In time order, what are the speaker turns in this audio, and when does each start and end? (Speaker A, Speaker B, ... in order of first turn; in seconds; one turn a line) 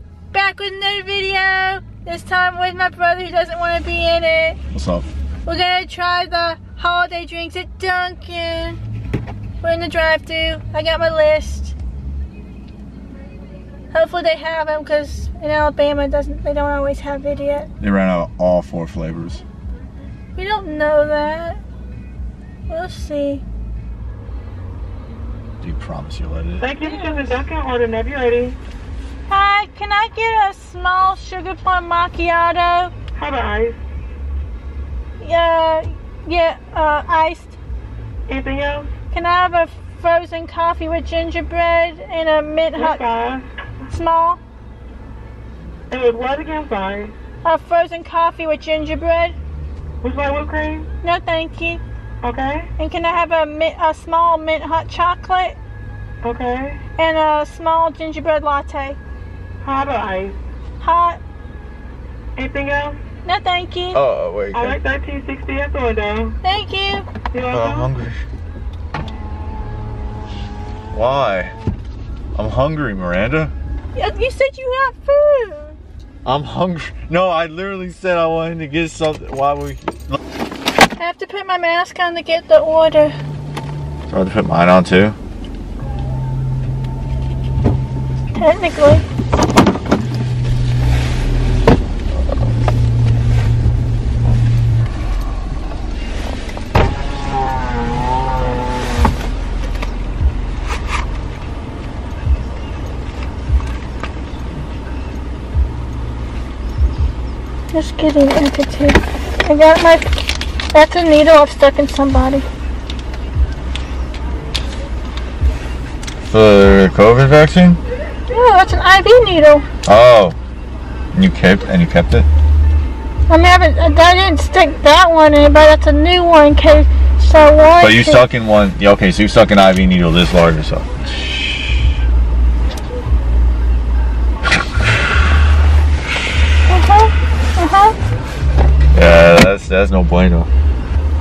Speaker A: 0.3-4.6
Speaker B: 4.7-5.0
Speaker A: 5.5-8.8
Speaker A: 9.6-11.7
Speaker A: 13.9-17.7
Speaker B: 17.8-19.4
Speaker A: 20.4-21.6
Speaker A: 22.7-23.4
Speaker B: 25.6-26.7
Speaker C: 26.6-28.6
Speaker A: 26.8-27.4
Speaker A: 29.3-32.9
Speaker C: 33.1-33.8
Speaker A: 35.2-37.6
Speaker C: 38.3-38.9
Speaker A: 39.1-43.0
Speaker C: 42.8-43.4
Speaker A: 43.9-44.4
Speaker C: 45.9-47.1
Speaker A: 47.4-49.4
Speaker C: 50.0-50.9
Speaker A: 51.0-51.8
Speaker C: 52.2-52.7
Speaker A: 52.8-55.6
Speaker C: 56.2-56.8
Speaker A: 57.0-59.0
Speaker C: 59.6-60.4
Speaker A: 60.8-61.2
Speaker C: 62.4-63.0
Speaker A: 63.2-64.0
Speaker B: 63.9-64.8
Speaker C: 64.5-66.4
Speaker A: 66.4-67.1
Speaker C: 67.3-67.9
Speaker B: 67.5-68.2
Speaker B: 70.9-71.5
Speaker B: 72.3-73.5
Speaker A: 74.0-75.8
Speaker B: 76.2-80.1
Speaker A: 81.0-83.1
Speaker B: 84.1-85.2
Speaker A: 88.3-89.0
Speaker A: 107.7-110.2
Speaker A: 110.7-112.4
Speaker B: 116.3-117.8
Speaker A: 118.3-119.6
Speaker B: 119.8-120.3
Speaker B: 121.1-122.3
Speaker A: 123.3-128.2
Speaker B: 127.8-130.9
Speaker A: 136.7-138.0
Speaker B: 138.9-140.5